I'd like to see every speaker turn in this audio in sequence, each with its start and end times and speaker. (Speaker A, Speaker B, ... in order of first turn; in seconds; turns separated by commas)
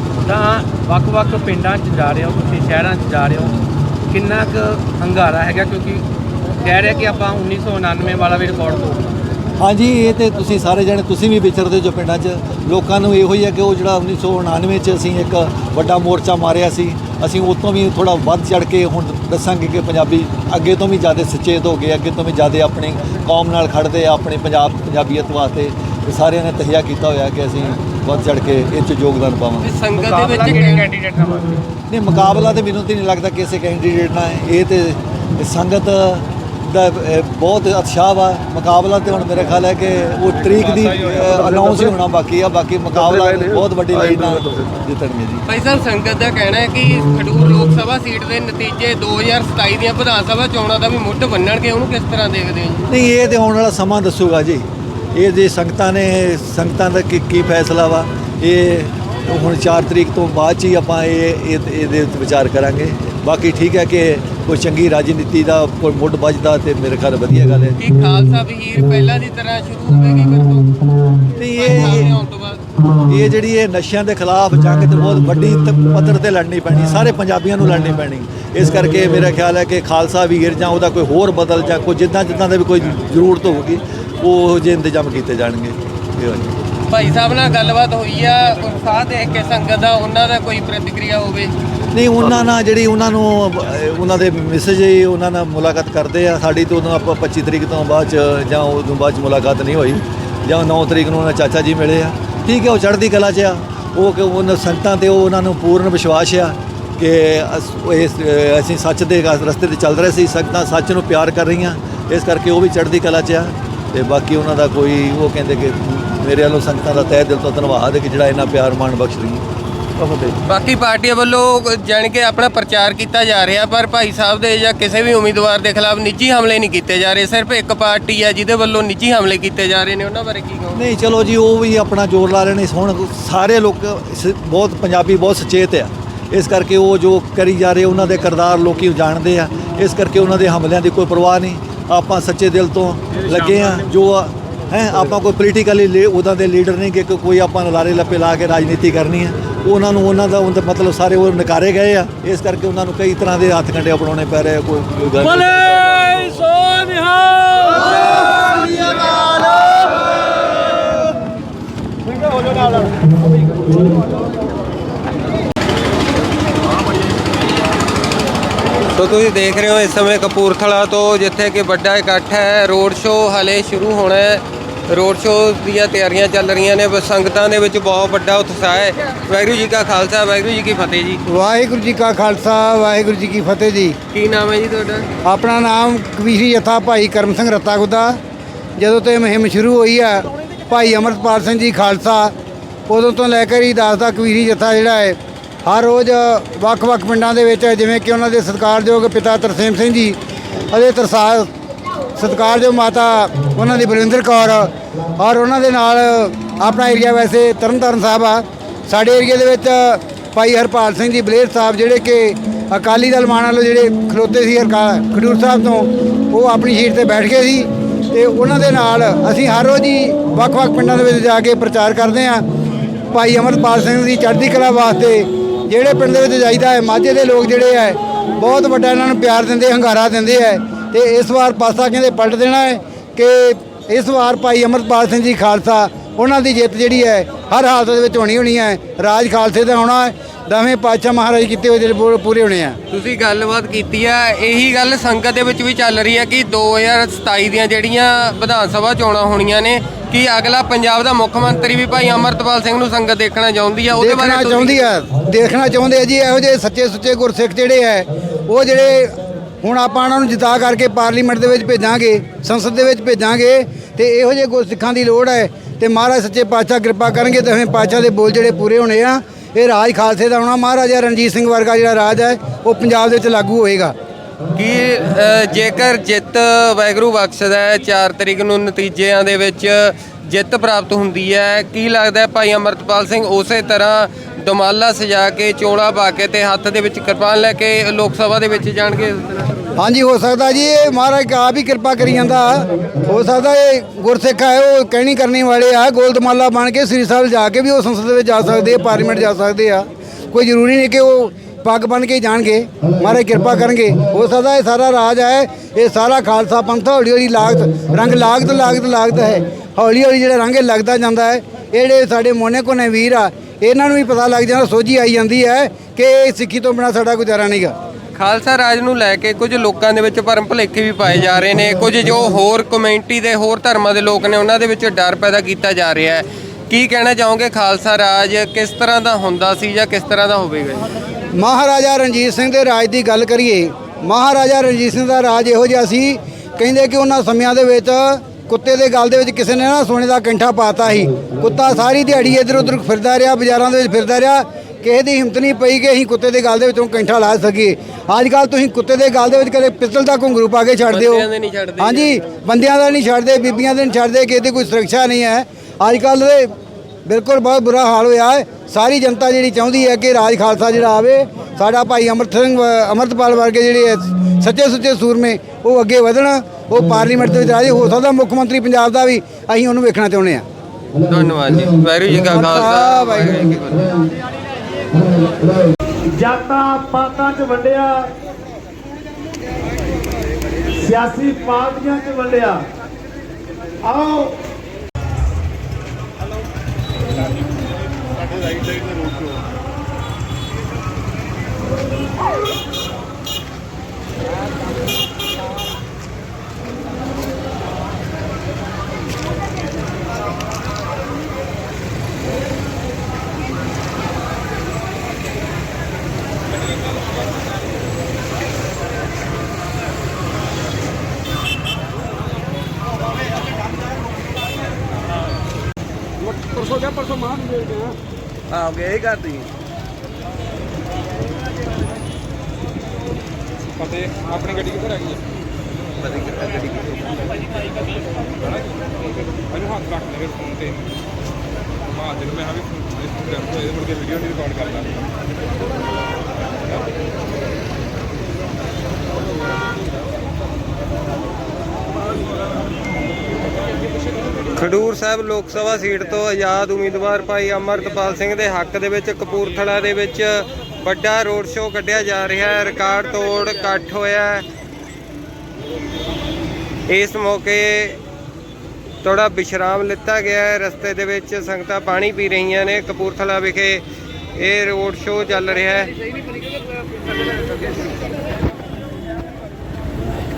Speaker A: 0.2-6.0, Speaker A: 6.6-9.2, Speaker B: 9.6-29.7, Speaker C: 29.6-30.9, Speaker A: 29.9-31.6, Speaker B: 31.9-45.5, Speaker C: 45.5-52.8, Speaker B: 52.9-67.8, Speaker C: 67.8-72.6, Speaker B: 71.4-72.1, Speaker B: 73.0-86.5, Speaker C: 86.9-91.5, Speaker B: 91.9-119.4, Speaker C: 120.5-130.9, Speaker B: 130.7-156.7, Speaker A: 156.9-157.5, Speaker C: 168.9-181.2, Speaker D: 181.3-184.0, Speaker C: 184.1-185.1, Speaker D: 185.2-188.2, Speaker D: 188.8-192.3, Speaker D: 192.9-200.2, Speaker D: 200.7-201.5, Speaker D: 202.2-222.4, Speaker D: 223.1-242.8, Speaker C: 242.9-254.8, Speaker D: 254.0-273.9, Speaker C: 274.6-289.6, Speaker D: 289.8-317.7, Speaker C: 318.2-330.9, Speaker D: 331.4-356.5, Speaker C: 350.9-352.2, Speaker D: 357.1-370.4, Speaker C: 371.1-374.0, Speaker D: 372.3-373.6, Speaker E: 376.1-378.1, Speaker E: 380.8-382.6, Speaker E: 383.8-384.4, Speaker B: 418.7-419.3, Speaker F: 423.8-425.2, Speaker F: 429.3-430.9, Speaker F: 432.1-434.9, Speaker C: 444.5-454.4, Speaker C: 456.9-458.0, Speaker C: 459.0-463.8, Speaker C: 464.4-465.9